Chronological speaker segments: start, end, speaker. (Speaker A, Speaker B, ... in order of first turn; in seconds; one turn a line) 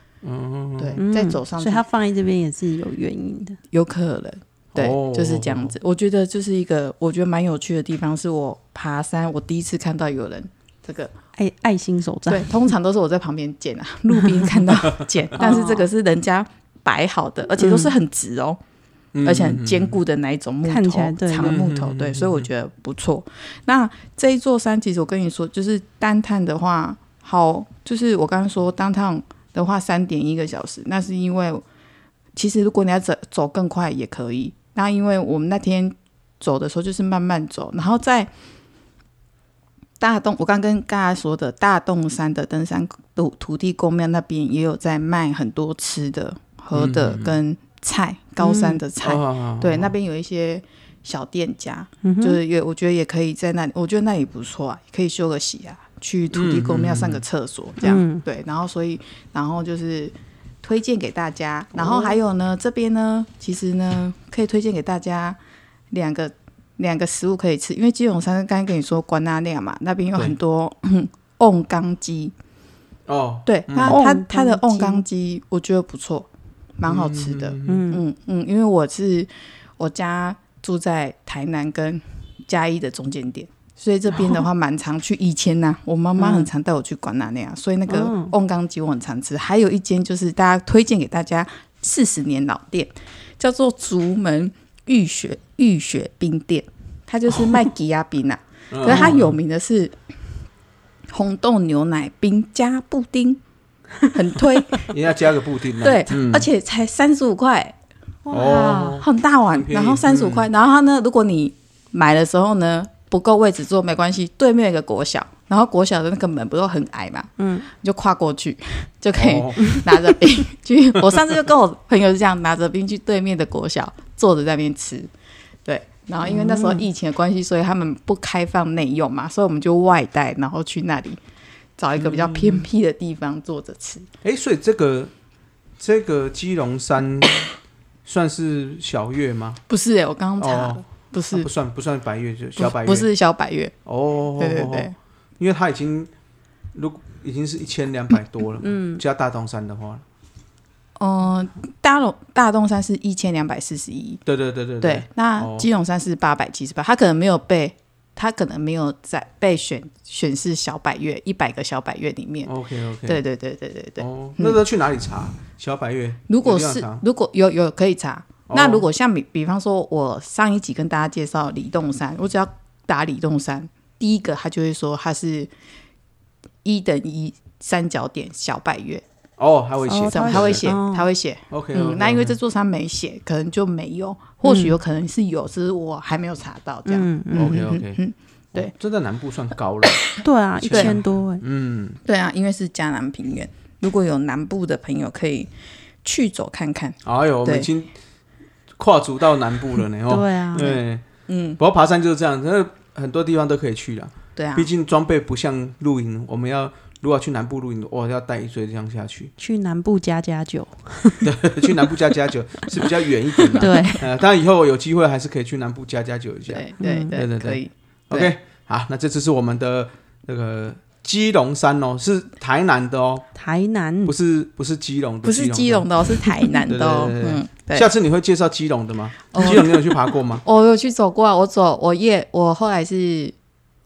Speaker A: 0.2-1.0
Speaker B: 0.8-1.9
Speaker C: 1.0-3.6
Speaker B: 3.7-11.1
Speaker A: 4.8-5.7
Speaker C: 11.4-12.6
Speaker B: 12.3-18.6
Speaker C: 14.1-14.7
Speaker C: 15.4-15.9
Speaker C: 17.6-17.9
Speaker A: 19.1-20.0
Speaker B: 19.2-31.6
Speaker C: 20.6-21.5
Speaker A: 21.4-22.5
Speaker B: 32.4-38.3
Speaker B: 40.0-65.4
Speaker A: 46.7-47.4
Speaker C: 48.4-48.8
Speaker A: 49.0-49.9
Speaker C: 52.0-52.4
Speaker A: 56.3-57.2
Speaker C: 57.8-58.2
Speaker A: 61.8-62.2
Speaker B: 65.9-72.3
Speaker A: 73.1-74.0
Speaker B: 73.5-100.0
Speaker C: 73.9-75.0
Speaker A: 76.9-77.8
Speaker C: 77.7-78.0
Speaker C: 86.2-86.5
Speaker C: 87.9-88.3
Speaker A: 98.7-99.3
Speaker C: 98.9-99.2
Speaker B: 101.1-103.4
Speaker B: 104.1-104.9
Speaker A: 104.9-106.5
Speaker B: 105.8-107.7
Speaker C: 108.3-109.1
Speaker A: 108.3-110.5
Speaker B: 108.7-125.1
Speaker C: 117.4-117.7
Speaker A: 119.2-119.8
Speaker B: 125.7-131.2
Speaker C: 126.2-126.8
Speaker B: 131.8-134.1
Speaker C: 132.0-132.7
Speaker A: 134.2-135.1
Speaker A: 135.8-137.5
Speaker A: 138.1-139.6
Speaker B: 139.7-141.5
Speaker A: 140.4-143.1
Speaker B: 142.6-143.7
Speaker A: 143.9-146.1
Speaker B: 144.4-144.9
Speaker A: 146.7-150.0
Speaker C: 148.6-149.0
Speaker B: 151.0-154.2
Speaker A: 154.3-155.7
Speaker B: 154.8-162.5
Speaker A: 162.4-163.2
Speaker B: 163.1-164.6
Speaker A: 164.0-167.0
Speaker B: 166.3-175.5
Speaker A: 168.5-168.9
Speaker B: 176.6-179.0
Speaker A: 179.4-180.7
Speaker C: 179.9-181.1
Speaker B: 180.1-188.7
Speaker A: 181.5-182.4
Speaker C: 184.4-184.8
Speaker C: 186.9-187.7
Speaker A: 187.3-188.0
Speaker A: 188.5-192.0
Speaker C: 190.2-191.4
Speaker B: 190.7-191.0
Speaker B: 192.1-195.5
Speaker B: 196.0-197.7
Speaker A: 197.0-197.9
Speaker A: 198.8-201.1
Speaker C: 200.1-200.8
Speaker B: 201.3-201.6
Speaker A: 201.6-209.3
Speaker B: 204.4-204.7
Speaker C: 209.4-211.7
Speaker A: 211.2-223.3
Speaker C: 213.4-214.0
Speaker B: 216.5-218.3
Speaker C: 216.8-217.2
Speaker C: 223.4-224.1
Speaker A: 224.1-225.9
Speaker B: 225.2-227.9
Speaker A: 226.7-230.4
Speaker B: 229.3-229.8
Speaker B: 230.4-233.3